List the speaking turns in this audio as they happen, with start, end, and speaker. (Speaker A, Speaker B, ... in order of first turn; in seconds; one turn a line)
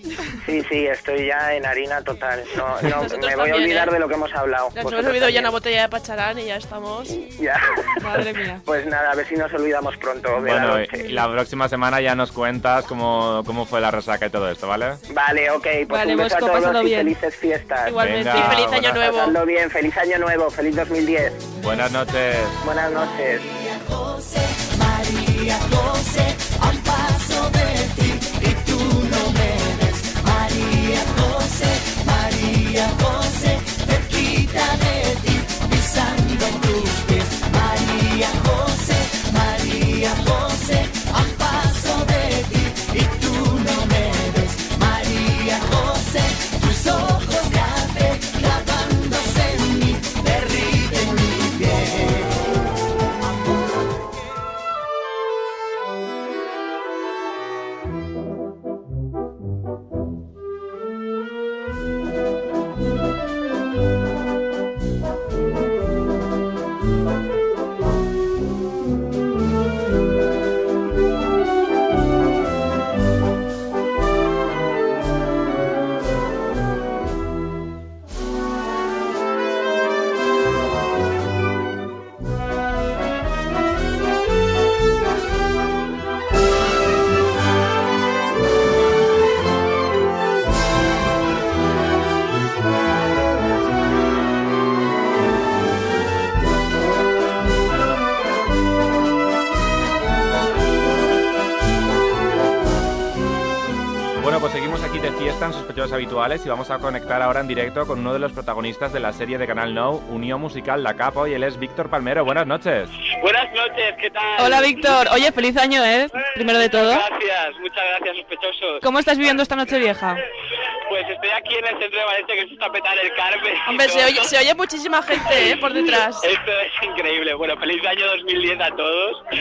Speaker A: 0.4-5.5
Speaker B: 2.8-3.9
Speaker B: 4.7-7.2
Speaker A: 7.1-11.2
Speaker C: 8.0-8.6
Speaker D: 10.4-15.0
Speaker A: 15.1-18.0
Speaker C: 15.9-17.1
Speaker C: 17.8-18.6
Speaker D: 17.9-19.0
Speaker B: 18.3-19.4
Speaker A: 18.5-21.4
Speaker D: 21.6-22.6
Speaker A: 22.6-23.5
Speaker E: 23.7-52.2
Speaker D: 104.2-112.9
Speaker F: 113.2-114.8
Speaker C: 114.4-117.0
Speaker F: 116.6-118.8
Speaker C: 118.8-120.2
Speaker F: 120.9-124.3
Speaker B: 123.7-126.3
Speaker F: 125.2-125.5
Speaker F: 126.2-129.2